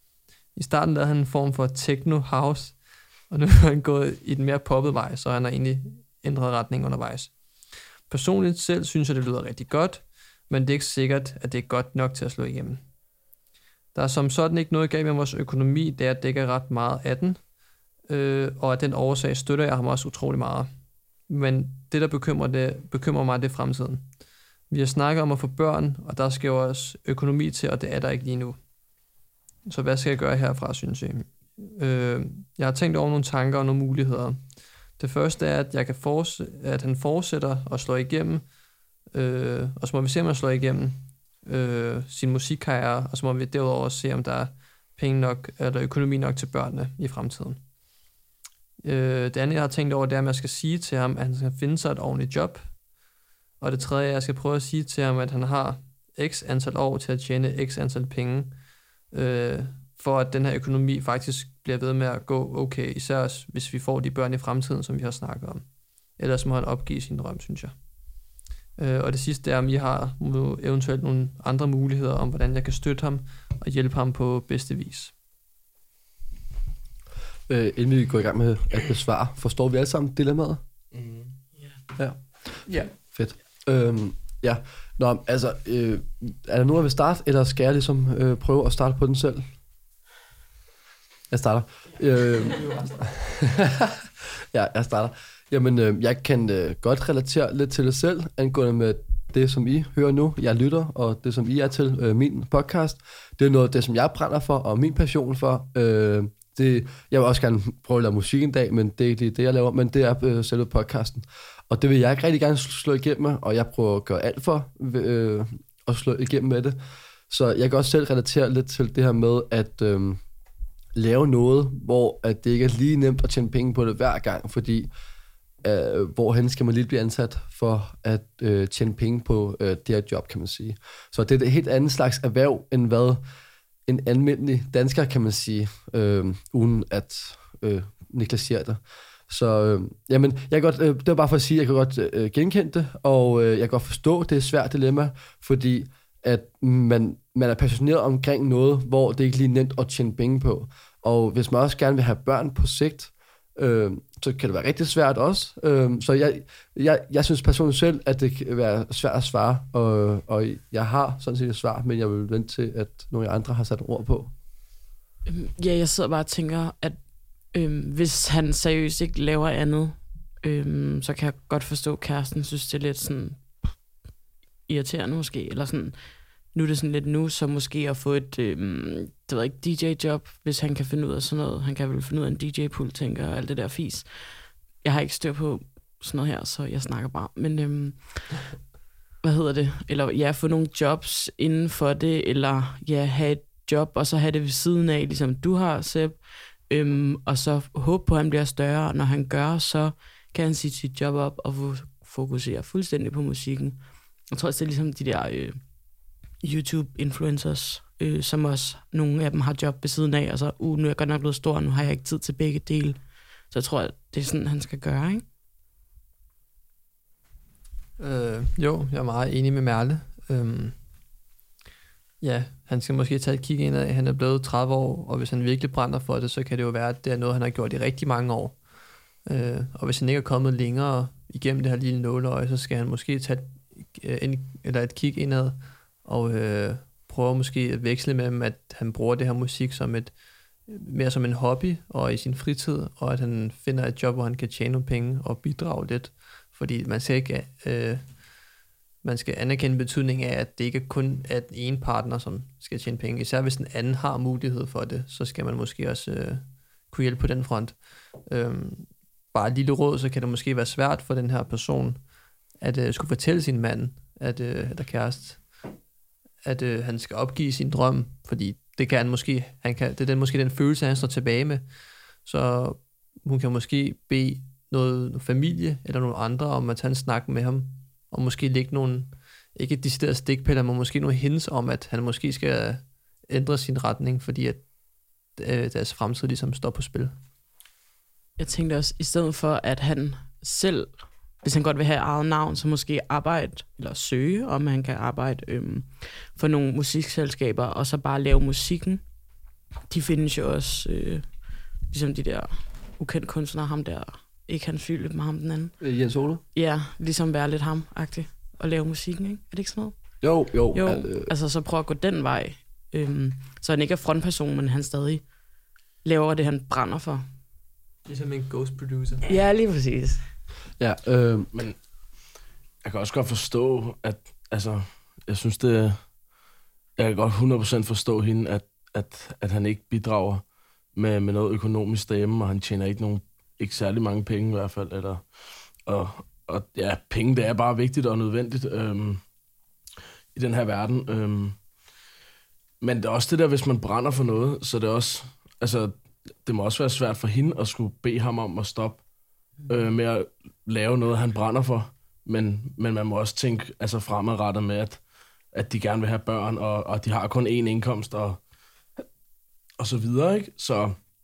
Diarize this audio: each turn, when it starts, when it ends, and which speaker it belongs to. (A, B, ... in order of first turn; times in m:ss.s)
0:00.6-0:02.8 A
0:03.3-0:07.4 A
0:08.1-0:12.8 A
0:13.9-0:17.4 A
0:18.1-0:20.7 A
0:21.3-0:24.1 A
0:24.7-0:28.6 A
0:29.7-0:34.4 A
0:35.0-0:38.4 A
0:39.1-0:47.6 A
0:48.8-0:52.8 A
0:53.6-0:58.6 A
0:59.1-1:07.8 A
1:08.8-1:15.1 A
1:17.5-1:20.6 B
1:20.9-1:21.3 C
1:22.0-1:29.5 B
1:22.7-1:22.9 A
1:31.3-1:56.8 B
1:32.6-1:32.9 A
1:57.3-2:00.2 B
2:01.0-2:04.9 B
2:05.6-2:13.2 B
2:13.9-2:44.3 B
2:45.3-2:54.0 D
2:54.7-3:08.6 D
3:09.2-3:35.2 D
3:38.0-3:40.8 A
3:42.2-3:48.6 A
3:49.2-4:08.2 A
4:09.0-4:22.0 A
4:22.6-4:25.5 A
4:26.4-4:31.7 A
4:32.2-4:44.7 A
4:45.4-4:47.2 A
4:48.4-4:59.1 D
4:59.9-5:05.9 D
5:05.8-5:06.4 B
5:06.5-5:15.3 D
5:10.2-5:11.3 B
5:16.0-5:17.2 D
5:18.1-5:19.3 A
5:19.3-5:20.2 D
5:20.8-5:21.5 B
5:21.5-5:21.8 C
5:22.8-5:26.2 C
5:27.0-5:35.2 C
5:35.9-5:39.2 C
5:40.3-5:41.6 C
5:42.8-5:49.0 C
5:49.6-5:58.4 C
5:59.8-6:01.0 C